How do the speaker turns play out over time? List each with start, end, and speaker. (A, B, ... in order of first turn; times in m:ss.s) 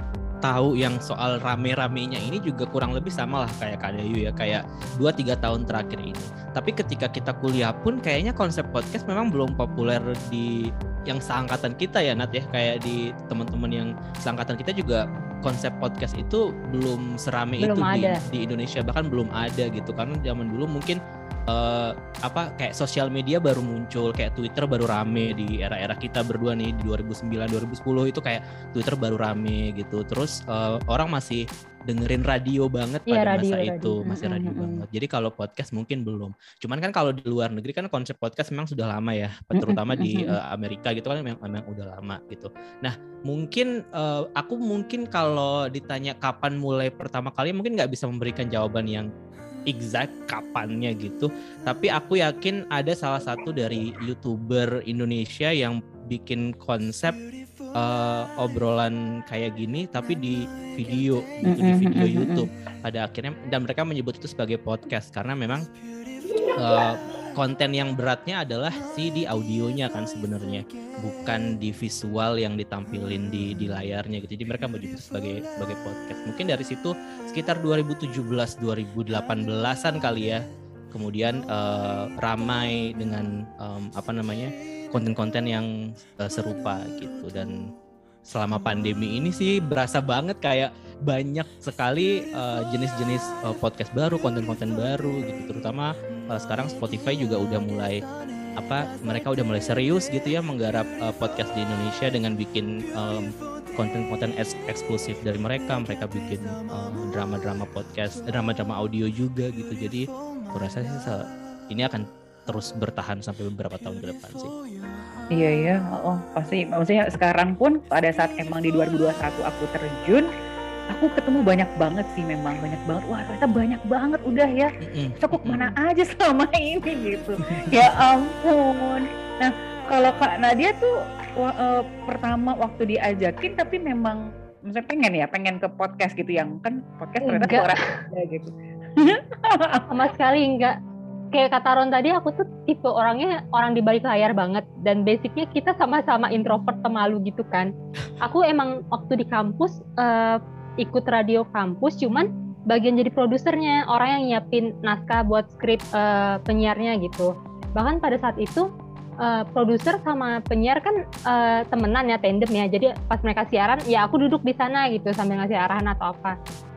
0:00.4-0:10.5 A
0:11.1-0:21.0 A
0:17.6-0:18.2 B
0:21.5-0:49.1 A
0:33.1-0:34.0 B
0:34.0-0:34.8 C
0:39.6-0:40.4 C
0:49.7-0:57.2 A
0:57.7-1:05.6 A
1:01.5-1:02.4 C
1:06.6-1:27.6 A
1:28.2-1:38.0 A
1:38.6-1:54.5 A
1:55.3-2:00.3 C
2:00.9-2:04.7 C
2:04.8-2:05.7 A
2:05.2-2:19.9 C
2:17.2-2:18.0 B
2:19.9-2:20.8 B
2:21.3-2:27.7 B
2:28.2-2:38.7 B
2:39.2-2:46.4 B